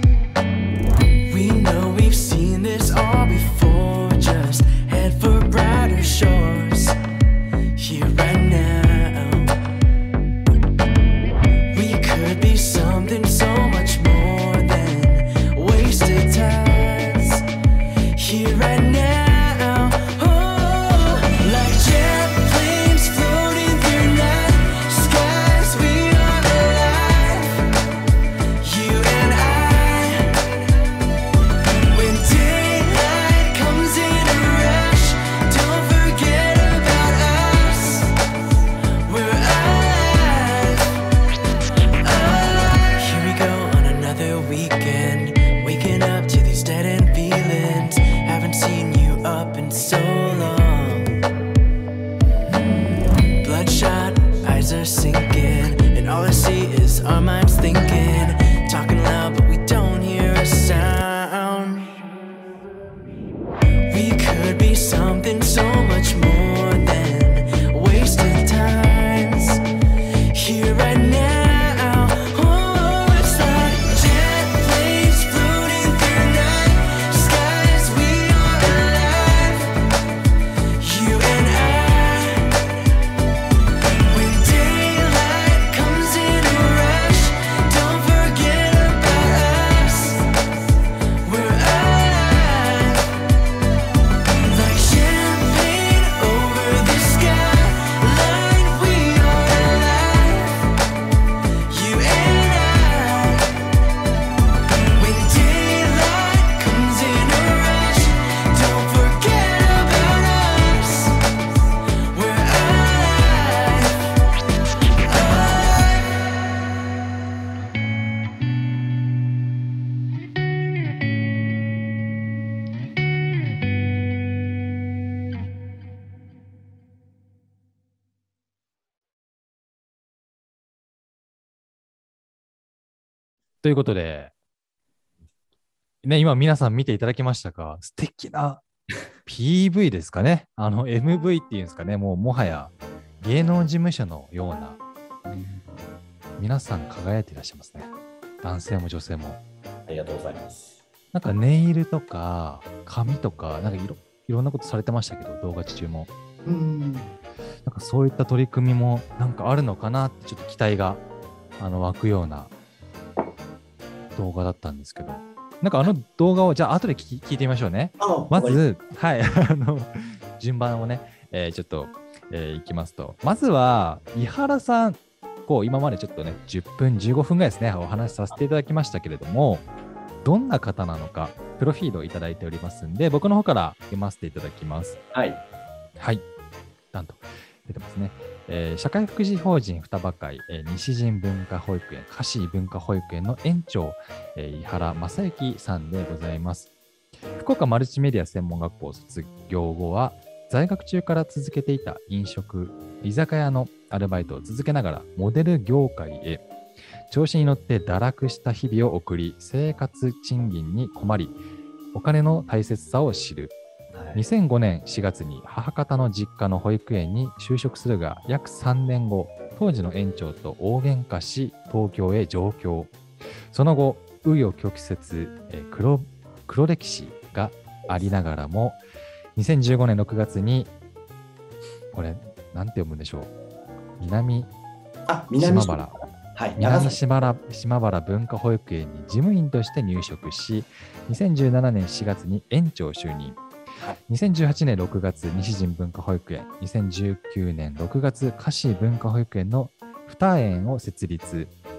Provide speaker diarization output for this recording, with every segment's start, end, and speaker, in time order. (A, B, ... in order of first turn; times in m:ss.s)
0:01.3-0:07.0 A
0:07.8-0:09.6 A
0:11.7-0:17.4 A
0:18.1-0:27.5 A
0:28.6-0:30.6 A
0:31.9-0:38.2 A
0:39.0-0:40.9 A
0:42.0-0:51.1 A
0:53.4-1:02.0 A
1:03.9-1:09.6 A
1:10.3-1:19.7 A
1:20.8-1:22.6 A
1:24.1-1:30.3 A
1:31.2-1:33.1 A
1:34.5-1:40.7 A
1:41.7-1:43.7 A
1:45.0-1:51.2 A
1:52.1-1:54.1 A
1:55.0-1:56.1 A
2:13.6-2:14.3 B
2:16.0-2:18.6 B
2:19.2-2:24.8 B
2:25.3-2:25.7 C
2:26.4-2:27.9 B
2:28.4-2:29.4 B
2:29.9-2:30.8 C
2:31.1-2:36.1 B
2:36.4-2:37.2 C
2:37.6-2:41.0 B
2:41.6-2:42.5 B
2:44.2-2:59.7 B
2:48.0-2:48.6 C
3:00.2-3:05.0 B
3:05.1-3:05.4 C
3:06.0-3:06.2 B
3:06.9-3:16.7 B
3:17.4-3:26.4 B
3:27.1-3:31.4 B
3:31.9-3:33.6 B
3:33.9-3:34.2 C
3:34.2-3:42.9 B
3:43.5-3:48.8 B
3:49.4-3:50.7 B
3:51.9-3:53.3 B
3:54.0-3:54.5 B
3:55.1-3:57.0 C
3:55.4-3:56.0 B
3:56.6-4:03.4 B
4:04.1-4:11.5 B